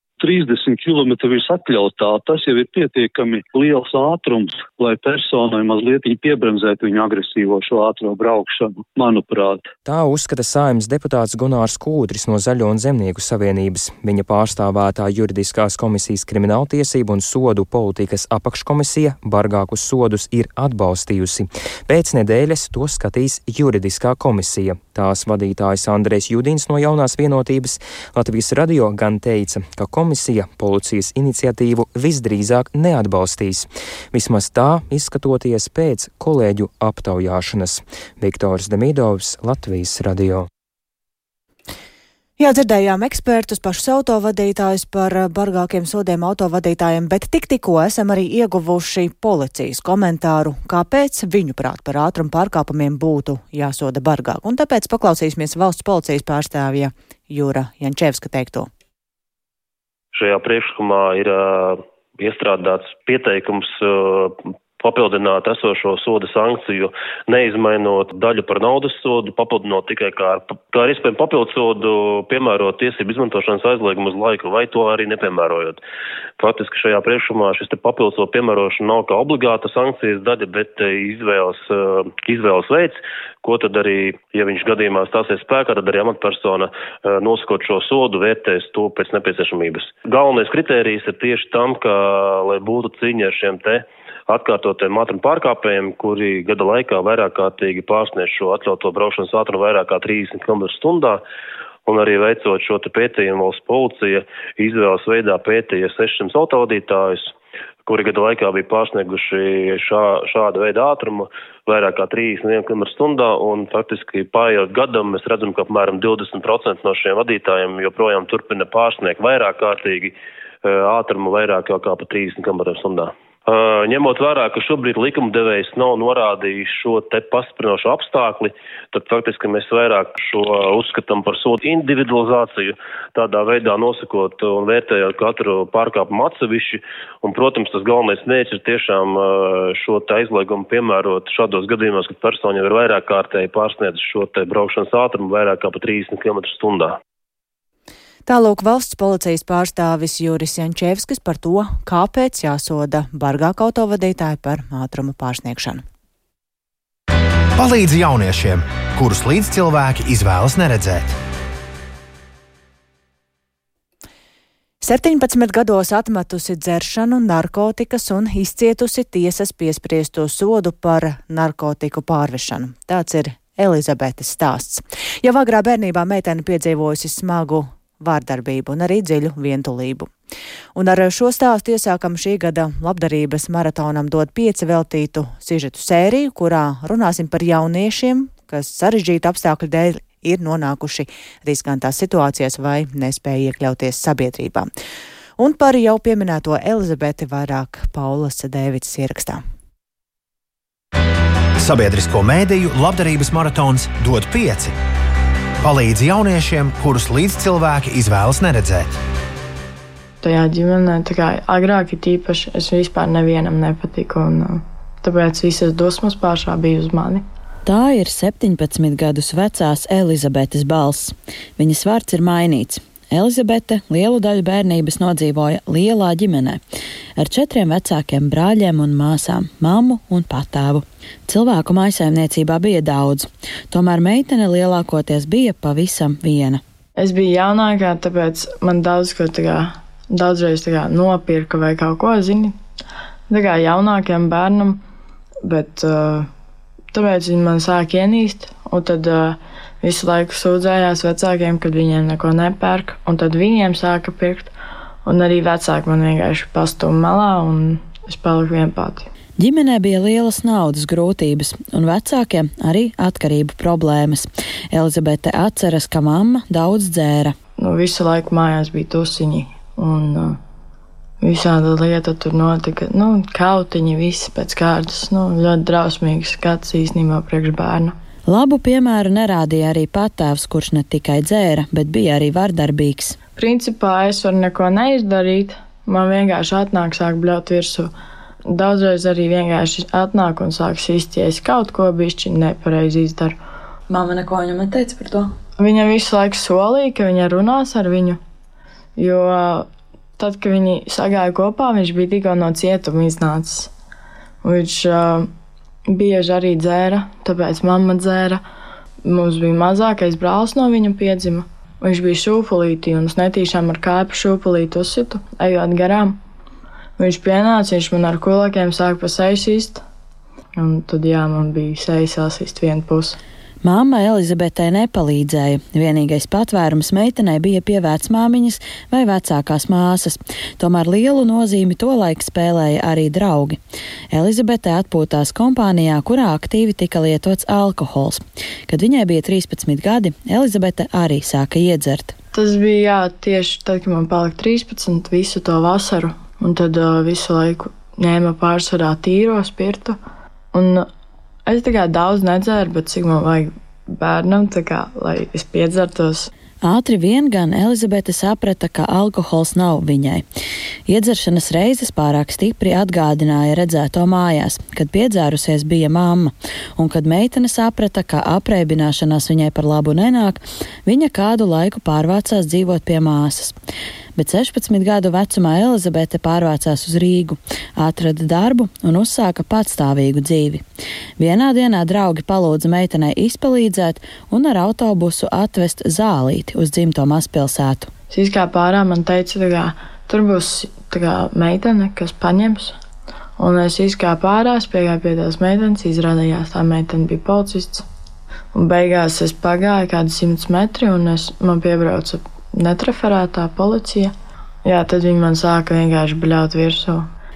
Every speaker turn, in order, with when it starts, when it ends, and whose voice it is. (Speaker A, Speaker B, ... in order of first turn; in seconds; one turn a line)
Speaker A: 0.2-9.7
Speaker B: 9.8-40.5
Speaker C: 42.4-58.7
Speaker D: 60.1-75.8
Speaker D: 76.4-101.2
Speaker D: 101.9-107.3
Speaker D: 107.9-147.0
Speaker C: 148.3-155.8
Speaker E: 157.6-161.2
Speaker C: 164.8-180.1
Speaker C: 180.8-194.7
Speaker C: 195.4-199.4
Speaker E: 201.6-204.8
Speaker E: 205.6-208.9
Speaker F: 210.2-217.2
Speaker G: 217.7-226.6
Speaker G: 227.2-236.6
Speaker F: 237.0-242.6
Speaker F: 243.3-244.8
Speaker F: 245.4-246.3
Speaker F: 246.9-254.5
Speaker F: 255.1-259.1
Speaker G: 259.4-267.3
Speaker F: 267.6-270.4
Speaker F: 271.2-277.9
Speaker G: 278.3-283.2
Speaker F: 283.4-287.9
Speaker F: 288.5-293.4
Speaker G: 293.9-295.3
Speaker F: 295.6-298.2
Speaker F: 299.0-303.7
Speaker F: 304.4-305.3
Speaker F: 305.9-308.4
Speaker F: 309.0-316.2
Speaker F: 317.0-319.8
Speaker F: 320.6-323.2
Speaker G: 323.6-333.6
Speaker G: 334.1-342.1
Speaker F: 342.3-350.0
Speaker F: 350.5-350.9
Speaker F: 351.5-356.3
Speaker G: 356.6-360.2
Speaker G: 360.9-373.5
Speaker G: 374.2-380.6
Speaker G: 381.2-387.9
Speaker F: 388.1-392.8
Speaker F: 393.4-397.9
Speaker F: 398.5-404.1
Speaker F: 404.6-407.1